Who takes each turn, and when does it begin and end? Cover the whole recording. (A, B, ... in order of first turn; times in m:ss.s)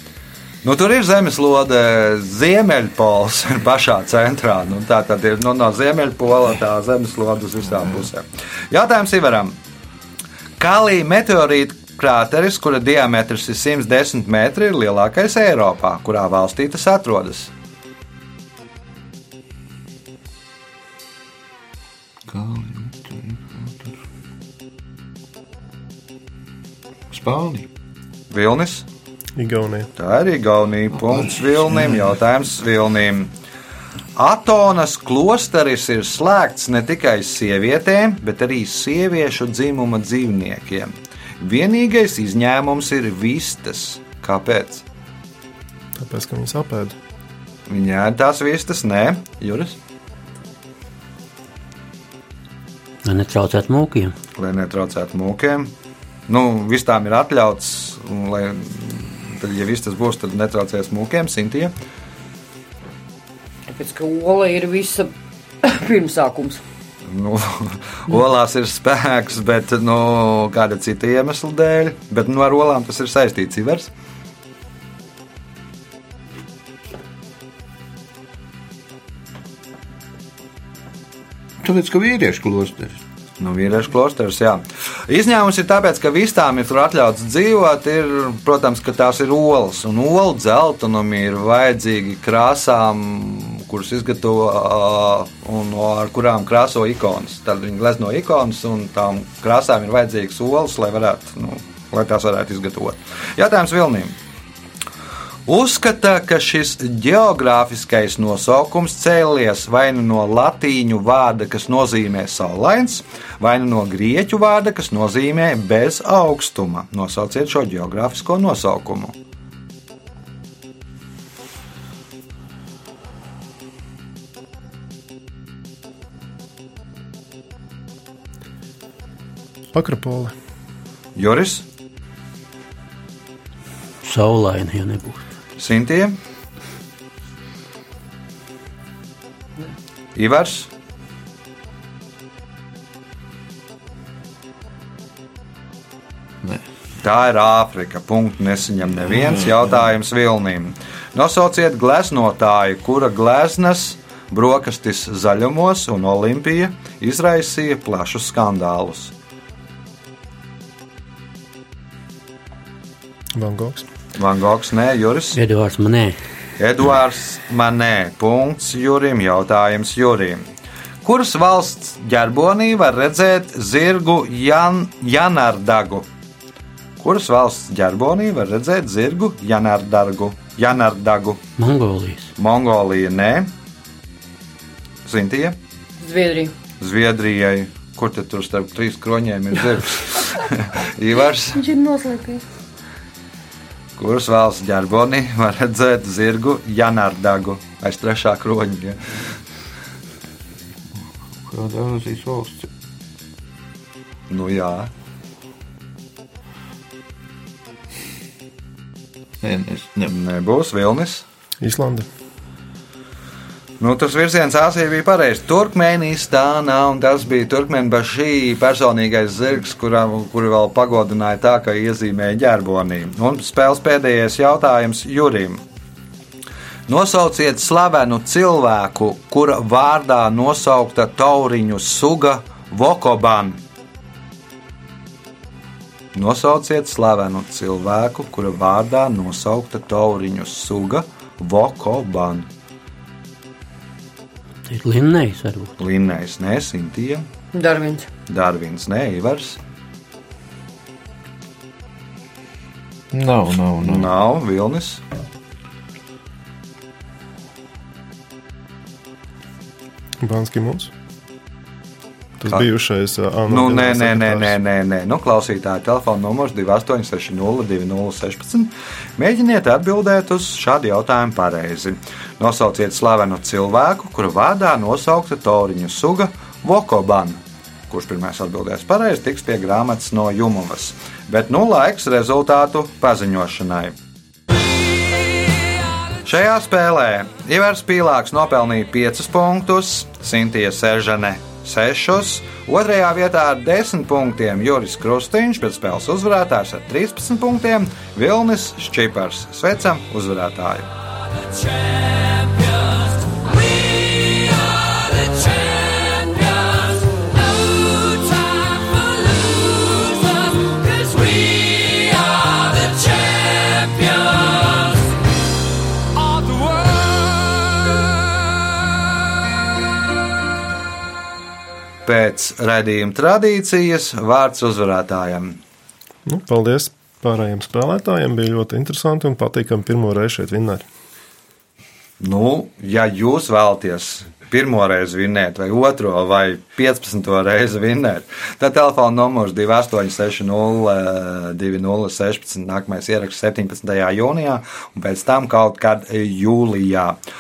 0:00.6-0:09.6 A
0:10.6-0:17.5 A
0:22.3-0:24.0 B
0:27.1-0:27.7 B
0:28.3-0:28.8 A
0:29.4-0:29.9 C
0:30.0-0:33.3 A
0:30.9-0:32.2 B
0:34.2-0:44.8 A
0:46.0-0:47.0 C
0:47.7-0:49.8 A
0:53.0-0:54.1 D
0:54.4-0:55.7 A
0:56.3-1:01.7 A
1:03.7-1:05.1 E
1:05.6-1:06.6 E
1:07.1-1:13.9 A
1:21.6-1:23.0 B
1:23.4-1:44.2 A
1:45.5-1:59.2 A
2:09.7-2:10.3 C
2:11.2-2:11.6 A
2:14.0-2:15.2 D
2:15.6-2:16.2 A
2:20.2-2:20.7 A
2:27.0-2:39.1 A
2:29.2-2:29.6 B
2:43.4-2:43.9 C
2:44.2-2:45.4 A
2:45.4-2:46.2 D
2:46.6-2:50.4 A
2:51.0-2:56.1 A
2:57.0-3:01.4 A
3:01.6-3:02.3 D
3:02.4-3:03.5 A
3:05.1-3:05.6 A
3:06.0-3:06.5 E
3:06.8-3:11.7 A
3:11.6-3:12.4 E
3:14.0-3:19.1 A
3:20.9-3:22.7 B
3:24.3-3:24.9 A
3:29.4-3:30.2 B
3:30.1-3:31.2 A
3:31.6-3:32.1 C
3:33.8-3:45.6 A
3:46.9-3:53.6 A
3:56.1-4:02.5 A
4:04.6-4:05.7 D
4:05.8-4:07.2 A
4:07.5-4:08.1 E
4:08.3-4:09.6 A
4:13.1-4:14.1 B
4:13.8-4:15.0 A
4:20.2-4:20.9 C
4:22.4-4:24.6 C
4:23.5-4:37.4 A
4:37.9-4:44.0 A
4:46.2-5:00.9 A
5:04.1-5:04.6 D
5:05.2-5:06.8 D
5:09.8-5:10.1 D
5:10.7-5:14.1 D
5:22.0-5:25.6 A
5:26.3-5:30.8 C
5:32.2-5:47.2 A